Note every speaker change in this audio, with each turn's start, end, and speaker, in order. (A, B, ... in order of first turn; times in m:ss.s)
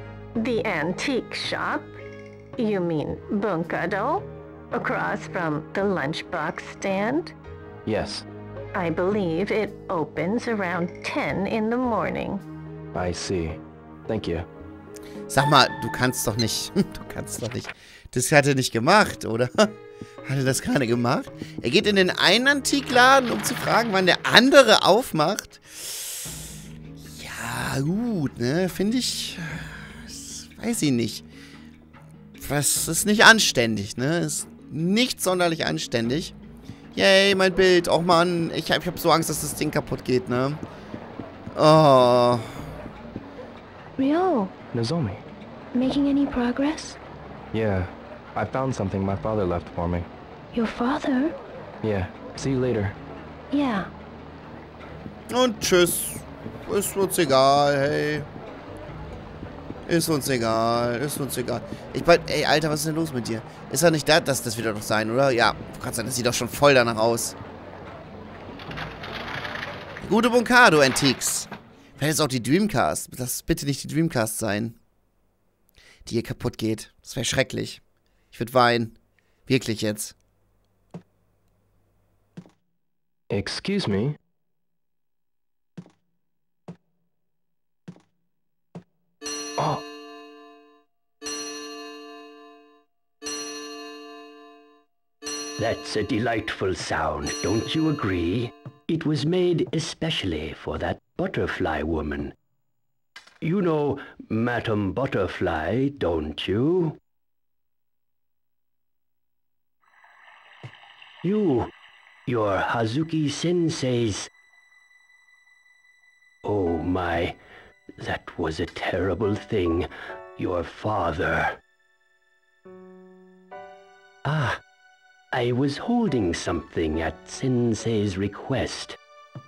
0:00.4-0:02.0 A
0:02.6-0:07.3 A
0:07.8-0:08.2 B
0:08.7-0:12.4 A
0:12.9-0:14.5 B
0:15.3-0:19.7 C
0:20.2-0:26.3 C
0:27.1-0:31.2 C
0:32.4-0:36.3 C
0:36.9-0:40.6 C
0:41.5-0:42.5 C
0:44.0-0:44.5 D
0:44.7-0:45.2 B
0:45.7-0:47.0 D
0:47.5-0:50.1 B
0:50.5-0:51.3 D
0:51.8-0:53.0 B
0:53.5-0:53.9 D
0:55.3-0:58.3 C
0:59.9-1:07.4 C
1:10.0-1:14.8 C
1:16.0-1:17.8 C
1:18.3-1:19.0 C
1:19.5-1:20.1 C
1:23.3-1:24.2 B
1:35.6-1:42.3 E
1:43.4-1:47.0 E
1:51.2-1:51.7 E
1:52.2-1:54.3 E
1:56.4-1:57.4 E
1:58.0-2:01.6 E
2:04.2-2:04.6 E
2:05.3-2:09.0 E